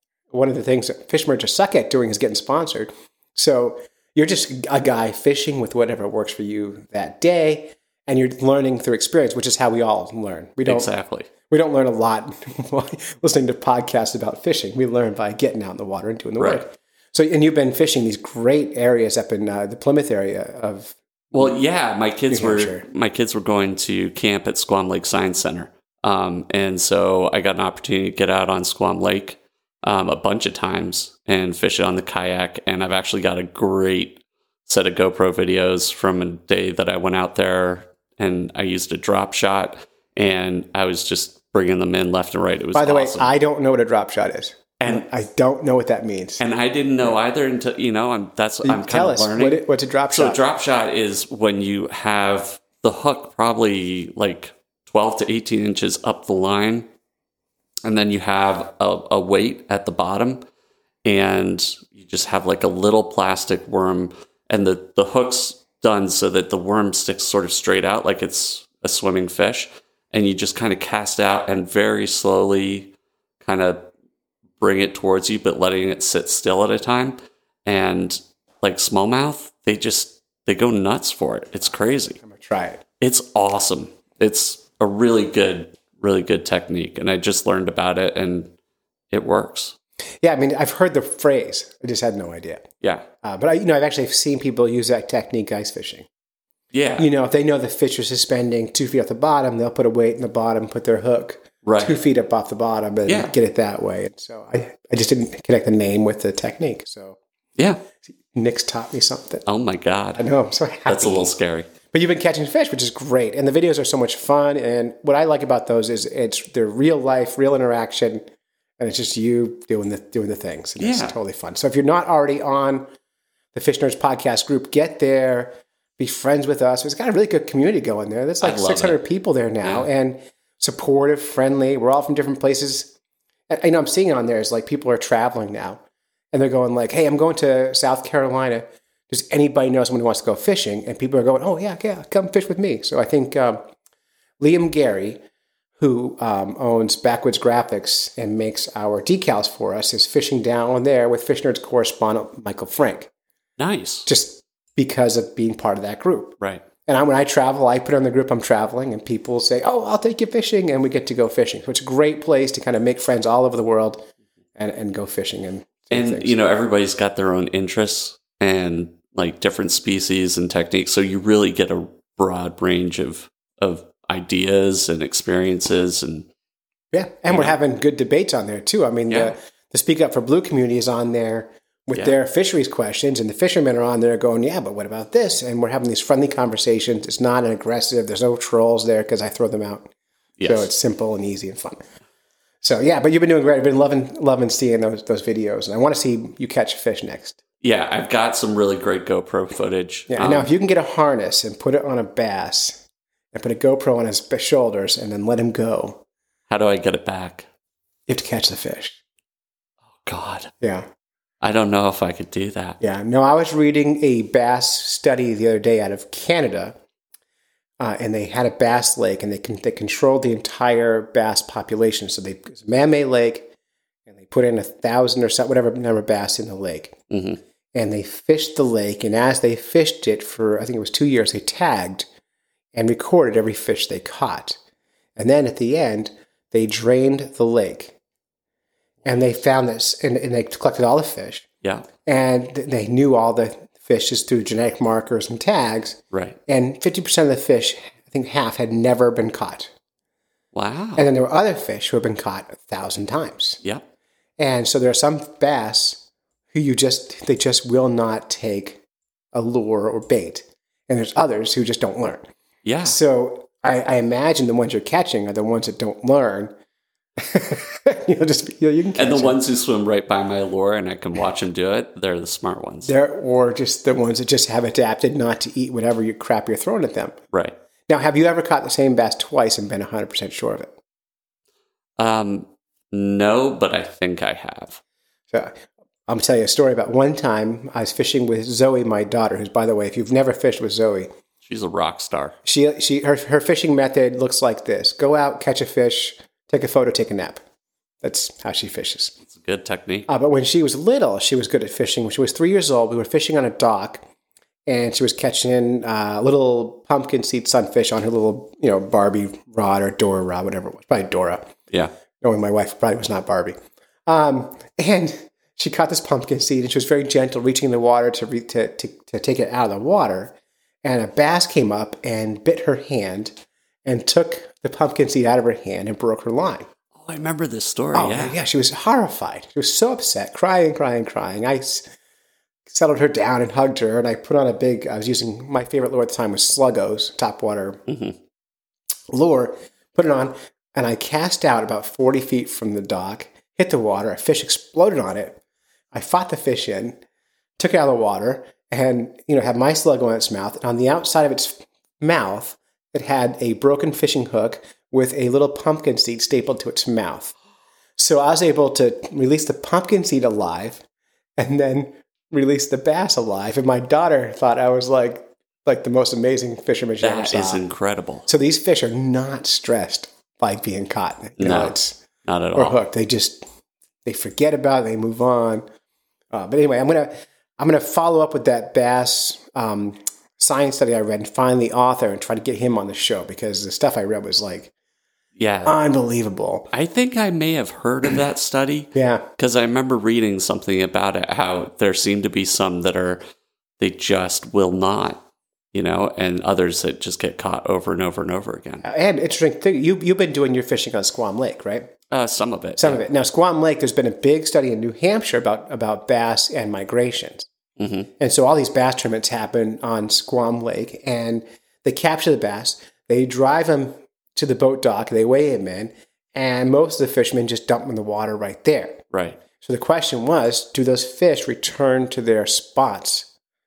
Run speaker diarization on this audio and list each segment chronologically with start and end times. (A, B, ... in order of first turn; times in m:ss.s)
0:00.3-0:10.9 A
0:10.6-0:11.3 B
0:11.5-0:21.6 A
0:16.4-0:16.6 B
0:21.3-0:43.3 B
0:22.3-0:22.8 A
0:42.7-0:46.4 A
0:44.8-0:45.0 B
0:46.4-0:56.9 B
0:48.6-0:50.4 A
0:57.8-1:00.4 B
1:01.0-1:13.9 B
1:14.6-1:22.2 B
1:22.2-1:22.8 A
1:23.0-1:28.5 B
1:29.1-1:29.8 B
1:30.2-1:32.6 A
1:32.8-1:33.0 B
1:33.2-1:36.1 A
1:36.7-1:37.0 B
1:37.0-1:47.2 A
1:41.6-1:42.0 B
1:43.1-1:43.3 B
1:48.2-1:49.4 A
1:49.4-1:50.2 B
1:50.2-1:51.3 A
1:50.9-1:51.7 B
1:51.9-1:58.2 A
1:58.8-2:02.8 A
2:00.8-2:01.1 B
2:03.5-2:12.9 A
2:08.4-2:09.0 B
2:09.6-2:09.9 B
2:13.5-2:15.8 A
2:16.3-2:23.6 A
2:24.4-2:25.2 A
2:25.8-2:33.1 A
2:33.6-2:34.1 B
2:34.1-2:46.4 A
2:45.9-2:56.3 B
2:56.9-3:09.9 A
3:10.4-3:10.7 B
3:10.4-3:11.8 A
3:12.6-3:17.4 A
3:17.6-3:20.5 B
3:20.1-3:26.0 A
3:26.5-3:27.5 B
3:28.1-3:29.0 A
3:29.9-3:30.5 B
3:30.6-3:30.8 A
3:31.4-3:32.8 B
3:32.8-3:36.8 A
3:37.8-3:43.5 A
3:44.1-3:47.0 A
3:47.1-3:47.4 B
3:47.7-3:52.1 A
3:52.7-3:54.6 A
3:55.2-3:58.0 A
3:59.0-4:01.5 A
4:02.0-4:09.7 A
4:06.1-4:06.4 B
4:10.5-4:11.0 B
4:11.0-4:13.6 A
4:14.4-4:18.8 A
4:19.3-4:22.3 A
4:22.6-4:23.0 B
4:22.8-4:26.5 A
4:27.2-4:29.4 A
4:28.9-4:32.9 B
4:32.8-4:37.2 A
4:37.9-4:40.7 A
4:42.0-4:44.8 B
4:45.3-4:51.1 A
4:51.4-4:52.4 B
4:52.4-4:57.4 A
4:58.0-4:59.2 A
4:59.3-5:00.1 B
5:00.1-5:04.0 A
5:04.7-5:11.6 A
5:12.2-5:13.6 A
5:14.1-5:26.7 A
5:26.9-5:28.4 B
5:27.9-5:31.8 A
5:32.7-5:37.8 A
5:37.9-5:38.2 B
5:39.1-5:45.4 A
5:45.9-5:47.0 A
5:47.6-5:57.4 A
5:58.0-6:00.8 A
6:01.4-6:07.6 A
6:07.0-6:08.2 B
6:08.2-6:12.0 A
6:11.4-6:12.8 B
6:12.5-6:13.4 A
6:14.0-6:15.6 A
6:16.3-6:24.7 A
6:25.4-6:25.7 B
6:25.6-6:26.7 A
6:26.7-6:33.2 B
6:28.9-6:29.2 A
6:33.8-6:38.8 B
6:38.8-6:41.9 A
6:42.1-6:43.0 B
6:42.8-6:47.5 A
6:47.8-6:48.1 B
6:48.2-6:59.0 A
6:59.1-6:59.4 B
6:59.6-7:03.3 A